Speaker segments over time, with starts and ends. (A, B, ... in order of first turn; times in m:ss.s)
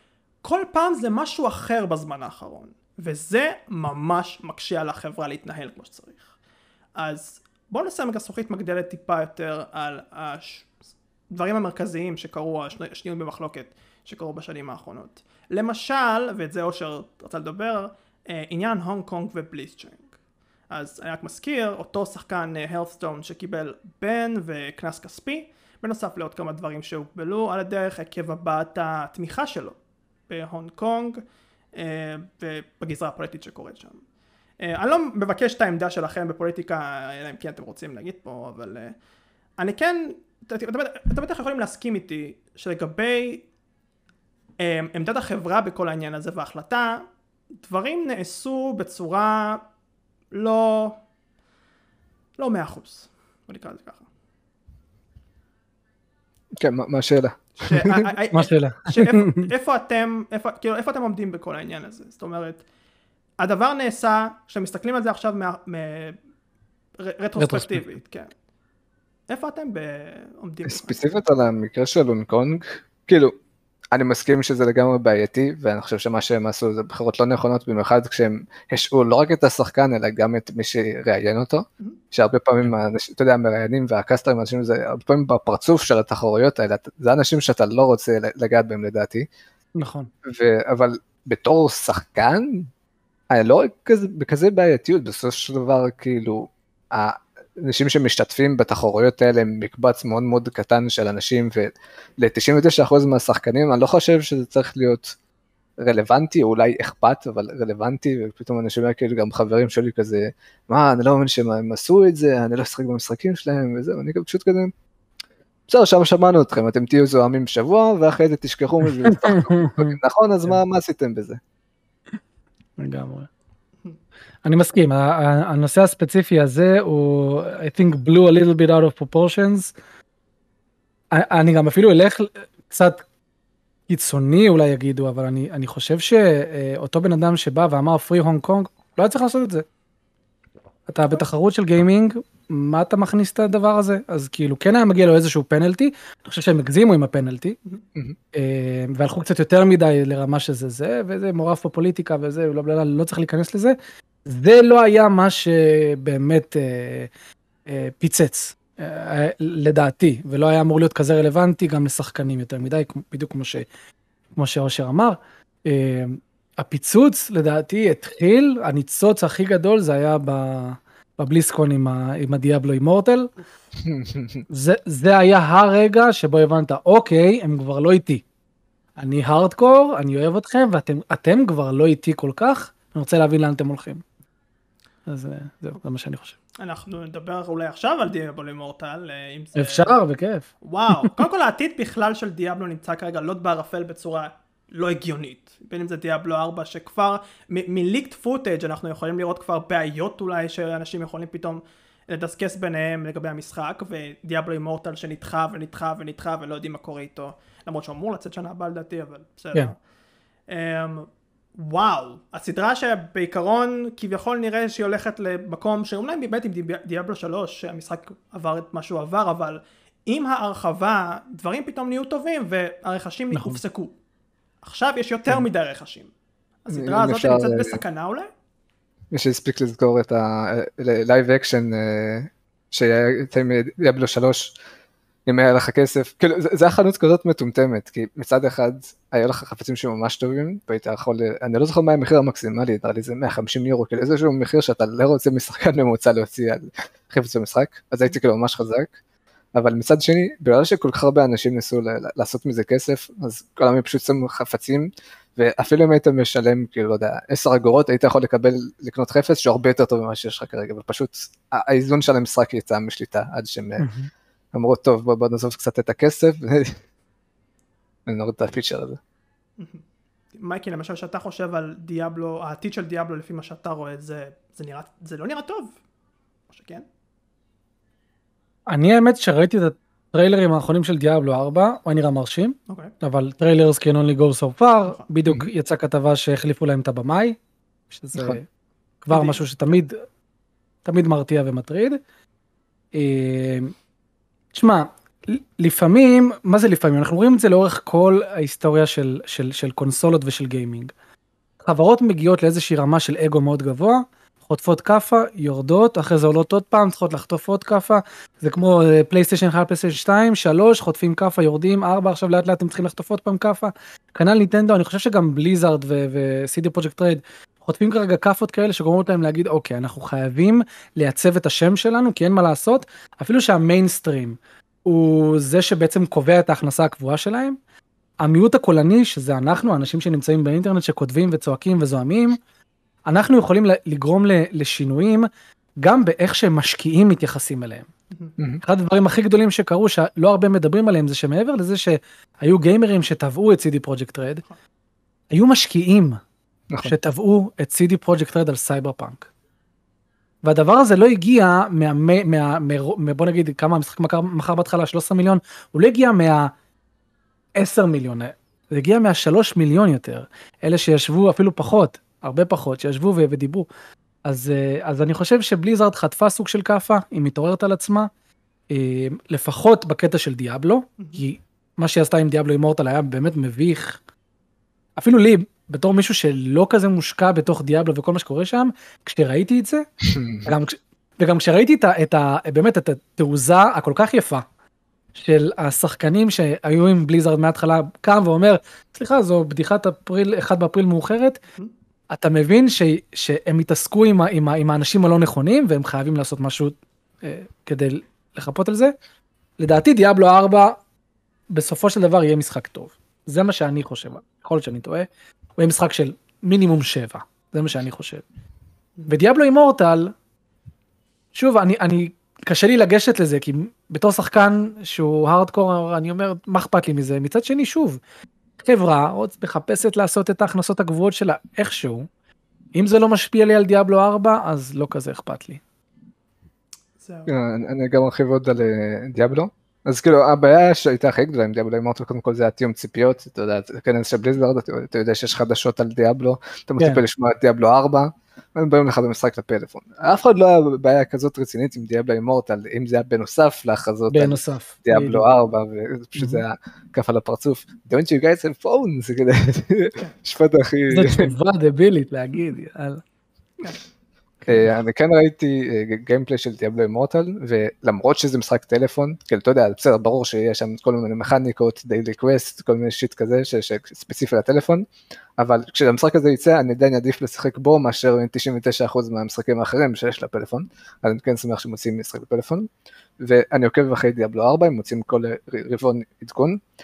0:00.4-0:06.3 A
0:07.0-0:10.7 A
0:11.3-0:20.1 A
0:20.7-0:29.8 A
0:30.3-0:31.2 A
0:31.7-0:34.0 A
0:34.6-0:39.0 A
0:39.6-0:43.4 A
0:44.6-0:47.0 A
0:47.6-0:49.6 A
0:50.3-0:51.0 A
0:52.4-0:54.1 A
0:56.6-0:58.0 B
0:57.6-1:02.6 A
0:58.3-0:59.5 C
1:03.4-1:06.2 A
1:07.0-1:08.3 A
1:07.4-1:07.8 C
1:09.3-1:11.1 A
1:10.6-1:13.3 B
1:13.9-1:29.2 B
1:29.8-1:30.1 C
1:30.2-1:32.7 B
1:33.3-1:45.2 B
1:45.8-1:54.7 B
1:55.7-2:01.4 B
1:59.0-2:00.0 C
2:02.8-2:03.3 C
2:04.4-2:09.7 C
2:11.1-2:13.0 C
2:13.9-2:19.6 C
2:20.9-2:27.6 C
2:28.3-2:37.1 C
2:37.7-2:43.7 C
2:44.4-2:53.3 C
2:53.8-2:54.4 B
2:54.5-2:58.2 C
2:59.0-3:04.0 C
3:05.1-3:06.4 C
3:06.6-3:10.0 A
3:09.6-3:11.2 C
3:10.6-3:29.8 A
3:30.5-3:44.0 A
3:43.3-3:43.6 C
3:44.6-3:46.1 A
3:46.6-3:48.3 A
3:46.7-3:47.8 B
3:49.1-3:54.6 B
3:55.3-4:08.9 B
4:09.6-4:23.9 B
4:23.8-4:24.1 C
4:24.5-4:26.8 B
4:28.1-4:29.0 B
4:30.4-4:35.8 A
4:36.5-4:36.8 A
4:38.7-4:47.4 C
4:47.9-4:48.4 C
4:49.0-4:50.0 C
4:49.1-4:49.4 A
4:50.8-4:52.0 C
4:52.9-4:53.7 C
4:54.5-5:00.9 C
5:01.6-5:27.6 C
5:28.2-5:32.4 C
5:33.0-5:35.3 C
5:35.8-5:37.9 C
5:38.6-5:44.4 C
5:45.3-5:46.2 C
5:46.7-5:47.0 B
5:46.8-5:49.3 C
5:50.4-5:56.5 C
5:57.6-6:03.7 C
6:04.2-6:08.1 C
6:08.7-6:14.0 C
6:15.0-6:19.8 C
6:20.1-6:20.5 B
6:20.4-6:24.4 C
6:25.2-6:31.4 C
6:32.1-6:38.9 C
6:39.6-6:40.8 C
6:41.5-6:48.2 C
6:49.1-6:50.1 C
6:51.3-6:58.0 C
6:58.6-7:02.1 C
7:02.7-7:05.6 C
7:07.0-7:07.3 A
7:07.3-7:31.3 B
7:24.1-7:25.3 C
7:26.2-7:26.4 C
7:30.9-7:33.0 C
7:34.5-7:44.9 B
7:45.4-7:52.7 B
7:53.2-7:56.6 B